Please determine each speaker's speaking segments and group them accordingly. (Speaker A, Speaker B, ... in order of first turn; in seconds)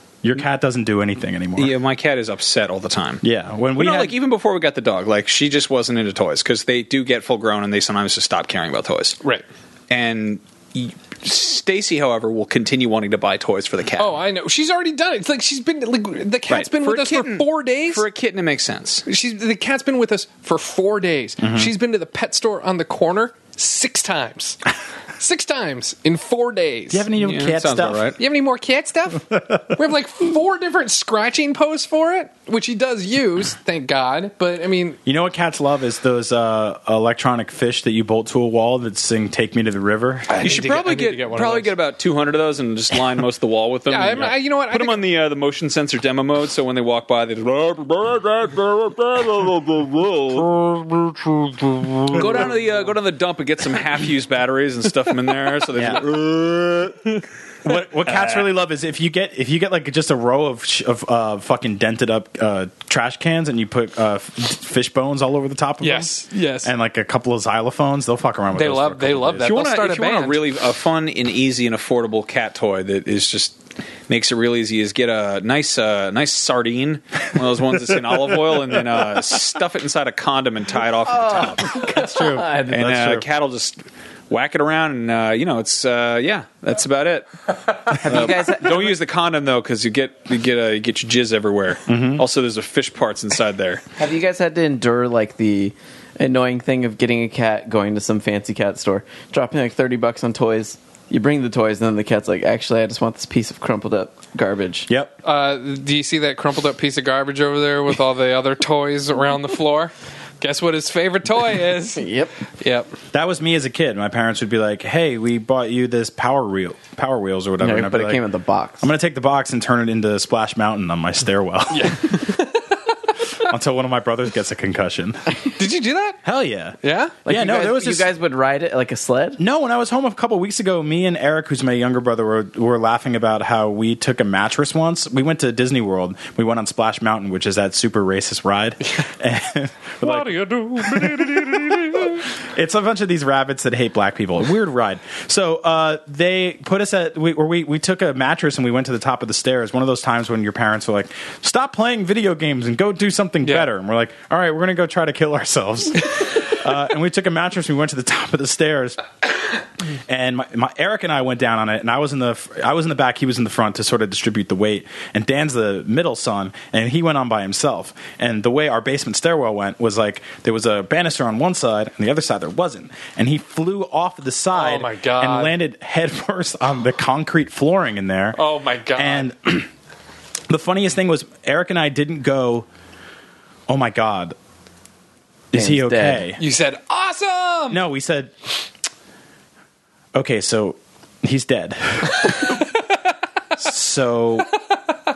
Speaker A: 0.2-1.7, 3.2-4.1, 21.4-21.7, 26.9-28.1, 35.0-40.5, 55.7-56.0, 57.6-69.5, 81.6-83.2, 91.9-92.2, 104.9-105.1, 113.1-118.2, 118.8-122.2, 123.4-125.3, 126.2-128.1, 129.4-159.0, 160.1-178.4, 178.9-179.7, 180.5-182.7, 183.7-184.3, 185.5-186.4, 187.7-188.3, 190.1-192.6, 193.6-194.5
Speaker B: 1.6-3.2, 3.8-9.2, 9.9-14.2, 16.5-19.0, 27.2-28.2, 40.4-50.5, 52.1-56.8, 69.4-81.8, 82.7-87.3, 87.8-93.8
Speaker C: 14.0-18.0, 19.1-24.6, 25.2-27.1, 28.2-35.0, 40.3-41.7, 43.9-45.0, 65.8-66.7, 68.5-70.4, 105.2-112.0, 112.6-112.9, 121.7-122.7, 125.5-126.2, 126.8-127.2, 140.0-142.2, 153.4-153.7, 174.5-175.5, 178.3-179.3, 186.4-187.8
Speaker D: 81.0-82.8, 88.0-89.0, 94.0-104.9, 112.0-112.3, 117.6-118.9, 127.2-129.4, 185.5-186.2